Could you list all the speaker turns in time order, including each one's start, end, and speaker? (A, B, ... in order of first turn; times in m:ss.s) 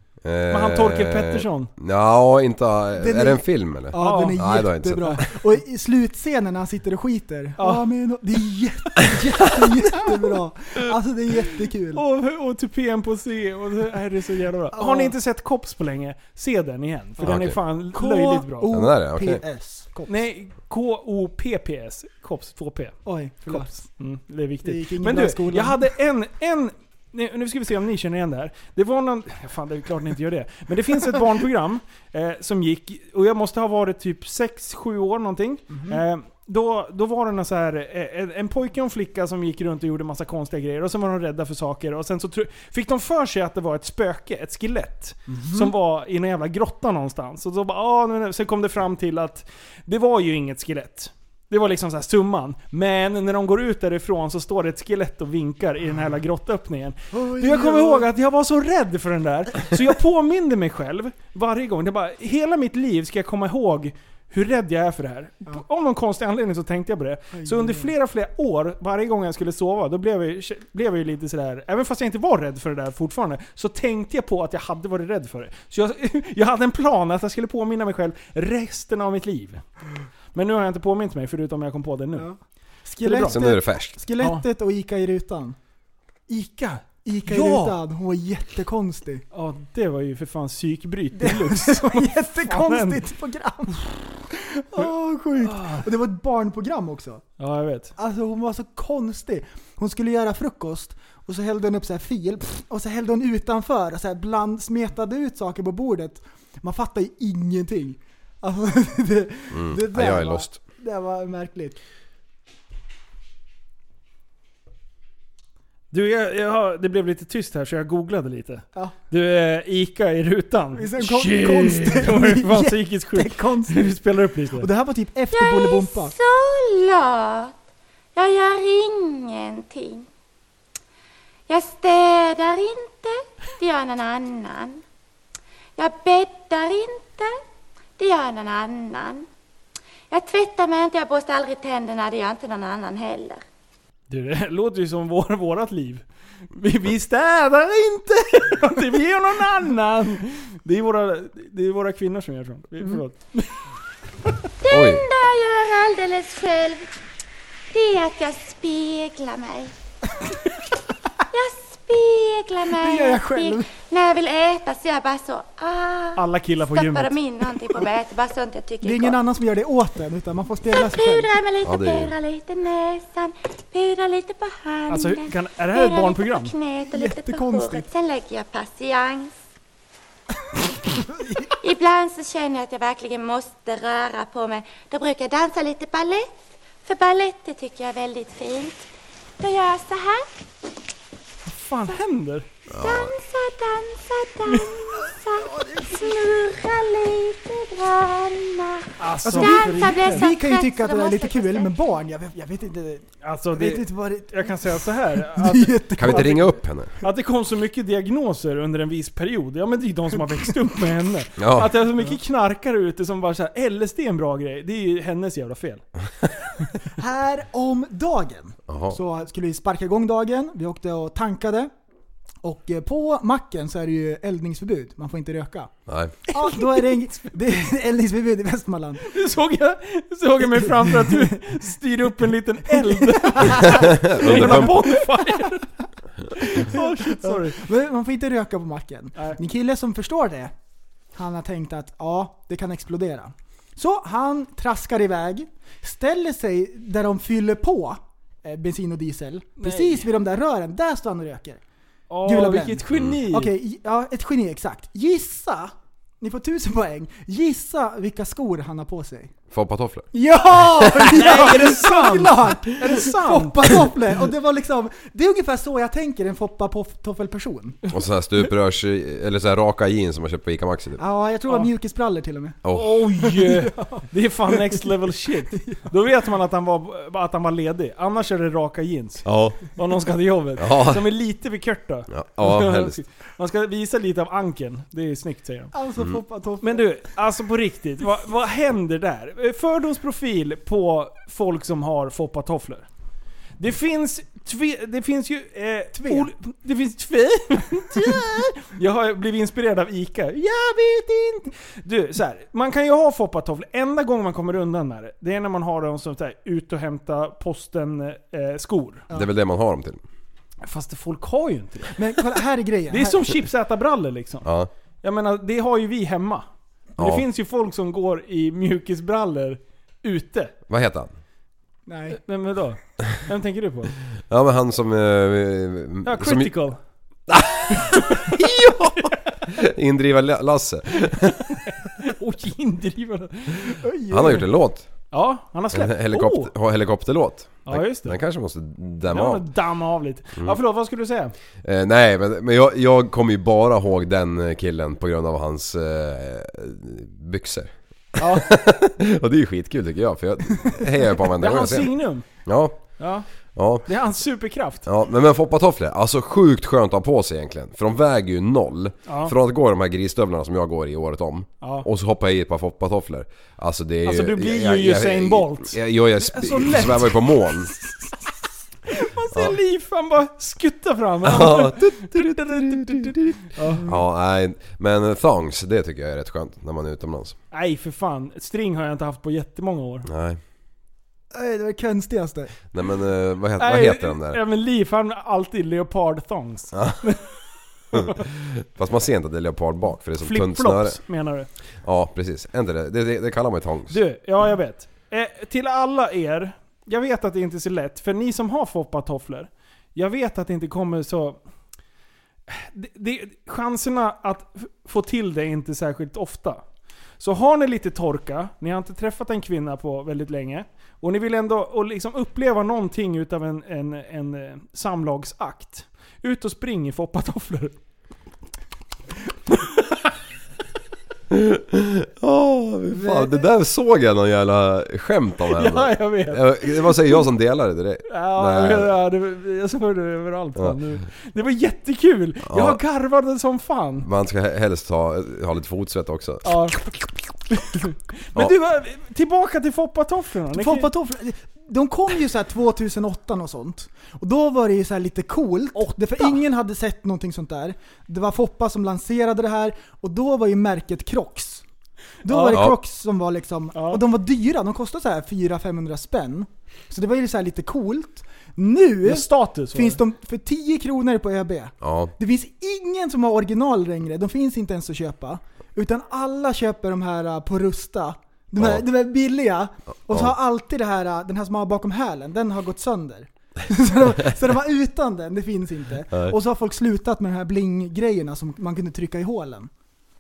0:00.2-0:05.2 A
0:00.5-0:01.7 B
0:03.0-0:12.0 C
0:04.0-0:04.4 B
0:07.6-0:07.8 B
0:12.0-0:18.7 B
0:14.7-0:15.2 C
0:17.2-0:20.3 C
0:17.2-0:17.6 A
0:18.7-0:19.4 A
0:20.1-1:19.6 B
0:23.0-0:23.9 C
0:24.6-0:25.8 C
0:35.7-0:36.0 C
0:45.3-0:45.7 C
0:57.1-0:58.1 C
1:07.3-1:07.9 C
1:20.3-1:22.3 B
1:22.2-1:25.6 C
1:23.0-1:23.4 B
1:23.2-1:24.0 A
1:26.3-1:27.8 B
1:27.0-1:29.2 C
1:29.3-1:33.0 B
1:31.2-1:37.2 C
1:35.4-1:35.9 B
1:37.4-1:37.9 B
1:38.0-1:51.8 C
1:49.5-1:50.6 A
1:55.9-2:04.7 B
2:00.8-2:04.0 C
2:04.6-2:06.1 C
2:05.3-2:07.5 D
2:08.2-2:10.1 D
2:11.5-2:14.8 D
2:15.8-2:17.4 D
2:18.0-2:19.3 D
2:20.1-2:23.4 D
2:24.1-2:33.5 B
2:34.6-2:36.9 D
2:34.7-2:35.1 A
2:37.7-2:39.7 D
2:41.3-2:49.2 D
2:42.7-2:43.7 C
2:46.2-2:47.2 B
2:48.8-2:51.3 C
2:50.7-2:59.4 D
2:51.6-2:52.1 A
2:54.9-2:56.5 B
2:56.9-2:57.9 C
3:01.6-3:06.3 D
3:06.8-3:08.8 D
3:09.4-3:10.3 D
3:11.5-3:12.5 B
3:12.7-3:13.1 A
3:12.8-3:21.8 D
3:15.6-3:16.2 C
3:19.0-3:20.3 B
3:19.2-3:26.5 C
3:23.2-3:35.8 B
3:26.0-3:26.9 A
3:31.4-3:31.7 A
3:37.0-3:41.7 C
3:38.7-3:39.0 A
3:42.4-3:45.7 C
3:45.9-3:46.2 A
3:46.3-3:49.0 C
3:46.4-3:47.3 B
3:49.1-3:55.7 B
3:50.6-3:51.3 C
3:52.7-3:55.5 C
3:53.5-3:54.8 A
3:56.4-3:57.6 B
3:56.5-4:00.5 C
4:01.2-4:11.6 C
4:09.6-4:10.1 B
4:12.1-4:13.5 B
4:12.2-4:19.3 C
4:19.5-4:20.1 A
4:20.1-4:27.8 C
4:20.6-4:21.5 A
4:21.0-4:23.9 B
4:27.9-4:31.0 A
4:31.0-4:32.6 C
4:32.6-4:33.0 A
4:32.7-4:45.7 B
4:33.2-4:35.9 C
4:39.2-4:39.7 A
4:40.6-4:41.1 A
4:42.1-4:43.0 A
4:45.7-4:46.9 C
4:46.6-4:52.9 B
4:53.6-5:09.1 B
4:56.0-4:56.3 C
5:09.1-5:10.0 A
5:10.6-5:12.0 B
5:12.0-5:13.4 C
5:12.9-5:14.5 B
5:14.4-5:14.7 A
5:15.0-5:16.4 B
5:17.0-5:17.2 A
5:17.0-5:20.5 B
5:20.7-5:21.1 A
5:21.9-5:22.2 C
5:22.2-5:23.9 B
5:24.3-5:26.5 A
5:26.0-5:26.8 B
5:27.3-5:31.6 A
5:27.9-5:29.6 B
5:31.1-5:33.8 B
5:33.8-5:34.4 C
5:34.1-5:34.9 A
5:35.1-5:36.5 B
5:35.7-5:39.5 A
5:37.7-5:38.2 B
5:39.1-5:41.3 B
5:41.6-5:52.8 A
5:48.2-5:48.5 B
5:51.4-5:52.3 B
5:53.0-5:53.3 B
5:53.6-5:53.8 A
5:53.8-5:54.9 B
5:54.9-6:07.7 A
5:59.1-5:59.3 B
6:01.6-6:01.9 B
6:04.0-6:07.2 B
6:08.9-6:13.8 B
6:11.2-6:17.4 A
6:17.5-6:20.1 B
6:20.1-6:20.4 A
6:21.3-6:22.6 C
6:22.7-6:24.4 A
6:23.6-6:27.3 B
6:26.7-6:27.1 A
6:27.9-6:31.0 A
6:27.9-6:28.2 B
6:30.2-6:31.5 B
6:31.8-6:34.0 A
6:33.9-6:41.4 B
6:42.5-6:46.6 B
6:47.2-6:57.8 B
7:01.3-7:09.0 A
7:03.0-7:03.3 C
7:05.6-7:07.2 B
7:08.1-7:14.1 B
7:12.4-7:12.8 A
7:14.0-7:16.7 A
7:16.4-7:16.8 B
7:17.5-7:20.9 B
7:20.5-7:31.6 C
7:25.8-7:26.4 B
7:32.2-7:32.7 B
7:32.2-7:59.7 C
7:33.7-7:34.0 B
7:39.1-7:40.0 B
7:41.8-7:42.1 A
7:48.6-7:48.8 A
7:50.1-7:50.4 A
7:56.1-7:56.4 A